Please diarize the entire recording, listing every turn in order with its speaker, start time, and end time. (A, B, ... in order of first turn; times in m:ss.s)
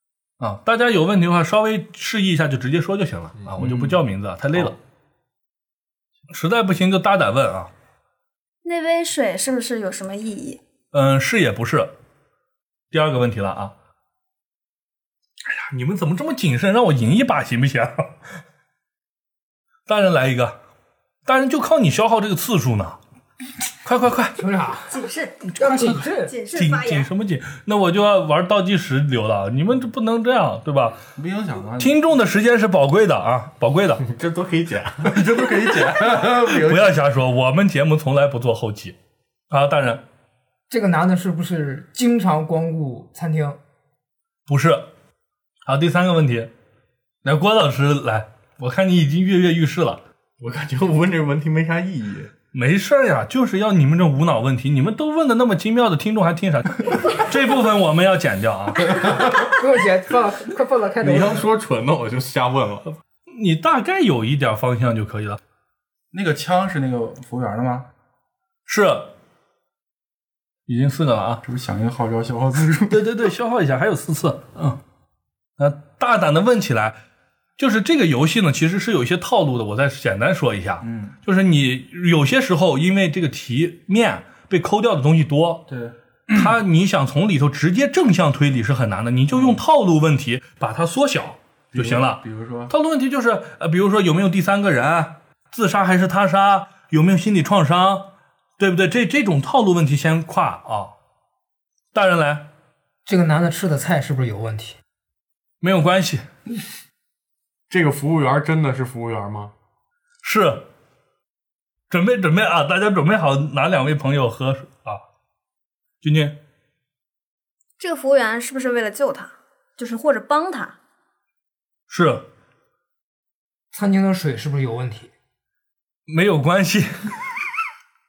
0:00.4-0:04.8 A
0:03.4-0:03.7 B
0:03.6-0:03.9 C
0:06.3-0:07.7 A
0:08.6-0:10.6 D
0:10.9-0:11.9 A
0:12.9-0:13.7 A
0:15.4-0:18.1 A
0:19.9-0:20.6 A
0:21.2-0:23.0 A
0:23.8-0:24.4 A
0:24.4-0:25.0 E
0:24.9-0:27.1 D
0:25.6-0:26.4 E
0:25.6-0:31.0 A
0:31.2-0:32.0 C
0:31.8-0:34.0 A
0:34.0-0:35.2 B
0:35.0-0:37.0 C
0:36.1-0:39.0 A
0:39.5-0:40.0 A
0:40.7-0:43.6 E
0:44.5-0:44.9 A
0:45.6-0:46.5 A
0:47.2-0:50.0 A
0:50.4-0:52.3 B
0:52.5-0:59.0 A
0:58.9-1:01.4 E
1:01.0-1:02.9 B
1:03.3-1:05.4 A
1:06.1-1:07.9 C
1:08.7-1:09.1 A
1:10.7-1:11.4 A
1:11.4-1:13.1 C
1:12.9-1:14.8 A
1:15.6-1:17.0 A
1:17.6-1:25.7 A
1:20.8-1:21.1 C
1:25.7-1:26.6 C
1:26.3-1:40.9 A
1:31.7-1:32.7 C
1:41.9-1:42.5 A
1:43.0-1:44.8 E
1:45.6-1:46.2 A
1:47.7-1:49.5 B
1:50.2-1:50.6 A
1:51.9-1:55.0 A
1:56.0-1:56.4 A
1:57.8-2:00.8 D
2:01.9-2:02.2 A
2:03.7-2:05.1 E
2:06.1-2:07.4 A